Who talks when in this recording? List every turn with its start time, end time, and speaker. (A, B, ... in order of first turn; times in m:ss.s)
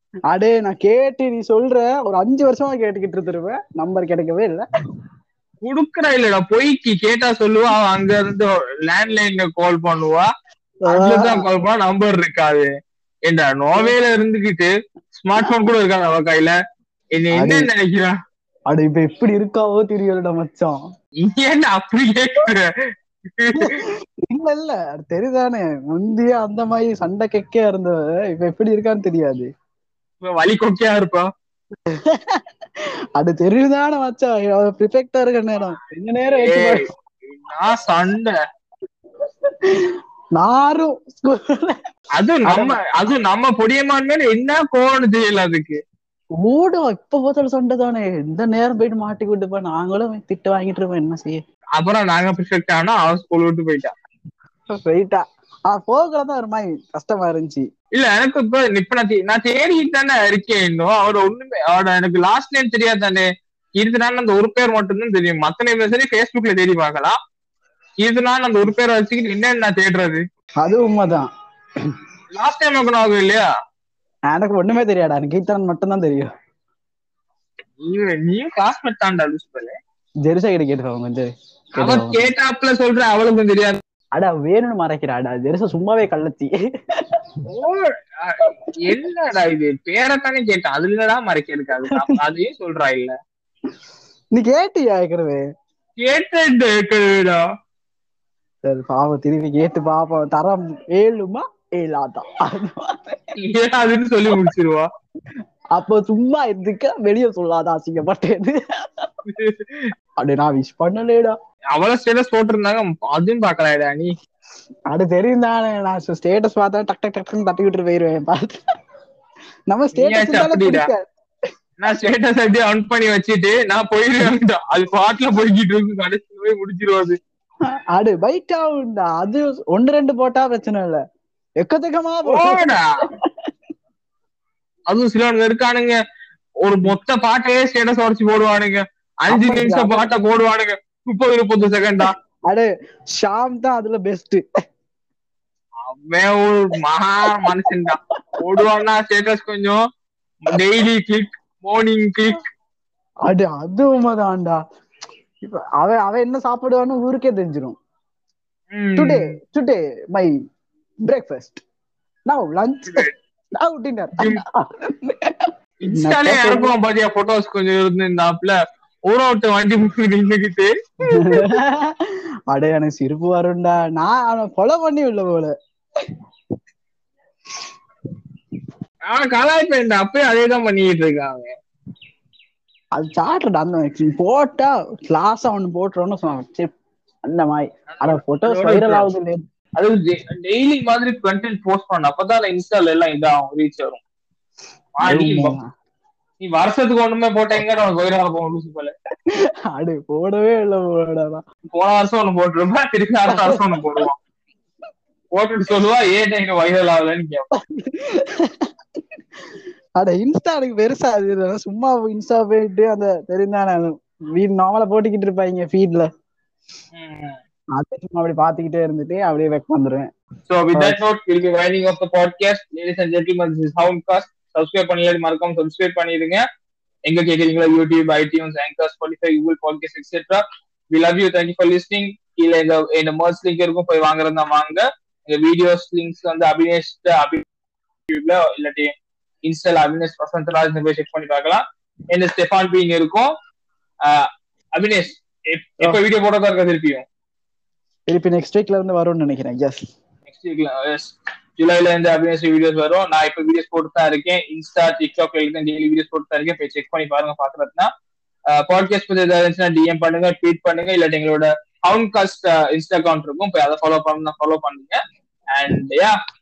0:00.3-0:04.6 A
0:05.6-0:10.3 B
0:10.9-0:11.4 A
0:10.9-0:12.7 B
0:13.3-0:16.6 B
0:17.2-0:18.1 B
0:17.3-0:17.7 A
0:18.7-0:20.8 A
0:21.2-0:22.7 B
0:23.4-0:23.8 B
0:23.6-0:29.5 A
0:30.2-0:31.3 B
0:31.9-0:32.4 A
0:33.2-0:36.8 A
0:36.3-0:38.3 B
0:39.5-0:41.8 A
0:42.2-0:45.8 B
0:42.4-0:42.8 A
0:46.4-0:51.4 A
0:51.8-0:53.9 B
0:54.7-0:57.7 A
0:57.9-1:07.1 B
1:08.0-1:10.2 B
1:10.6-1:11.3 A
1:12.3-1:13.4 B
1:14.3-1:16.3 A
1:17.8-1:19.8 B
1:20.2-1:22.3 A
1:21.8-1:23.8 B
1:24.2-1:27.3 A
1:27.5-1:33.1 B
1:31.9-1:32.2 A
1:34.3-1:35.4 A
1:36.0-1:37.4 B
1:38.6-1:43.2 A
1:43.4-1:44.9 B
1:45.7-1:49.1 A
1:49.3-1:49.9 B
1:50.2-1:51.4 A
1:51.7-1:54.1 B
1:54.9-1:58.6 A
1:59.7-2:01.1 A
2:00.0-2:00.9 B
2:01.8-2:07.2 B
2:07.9-2:11.0 A
2:11.6-2:12.6 A
2:12.2-2:12.8 B
2:14.9-2:16.0 B
2:16.6-2:22.1 B
2:19.3-2:20.1 A
2:22.5-2:24.4 A
2:25.9-2:29.8 B
2:30.4-2:32.4 B
2:33.2-2:34.6 A
2:35.4-2:37.8 A
2:38.7-2:39.4 B
2:39.0-2:40.3 A
2:41.0-2:41.6 A
2:42.3-2:45.4 A
2:42.9-2:43.1 B
2:44.2-2:44.4 B
2:45.8-2:48.6 B
2:46.0-2:46.7 A
2:49.1-2:51.6 B
2:51.1-2:56.1 A
2:59.1-3:01.5 B
3:03.0-3:09.4 A
3:07.9-3:09.1 B
3:09.8-3:14.0 B
3:15.0-3:15.6 B
3:15.1-3:15.6 A
3:16.4-3:18.9 B
3:19.3-3:21.4 A
3:21.7-3:24.2 B
3:23.3-3:24.0 A
3:25.3-3:27.4 B
3:27.6-3:29.0 A
3:30.0-3:36.1 A
3:37.0-3:37.4 B
3:37.8-3:40.1 A
3:40.5-3:46.4 B
3:40.7-3:41.0 A
3:47.1-3:57.4 B
3:58.1-3:58.9 B
3:59.4-4:03.3 B
4:04.0-4:07.0 B
4:08.1-4:09.8 A
4:10.3-4:17.9 B
4:18.5-4:25.0 B
4:25.6-4:26.2 B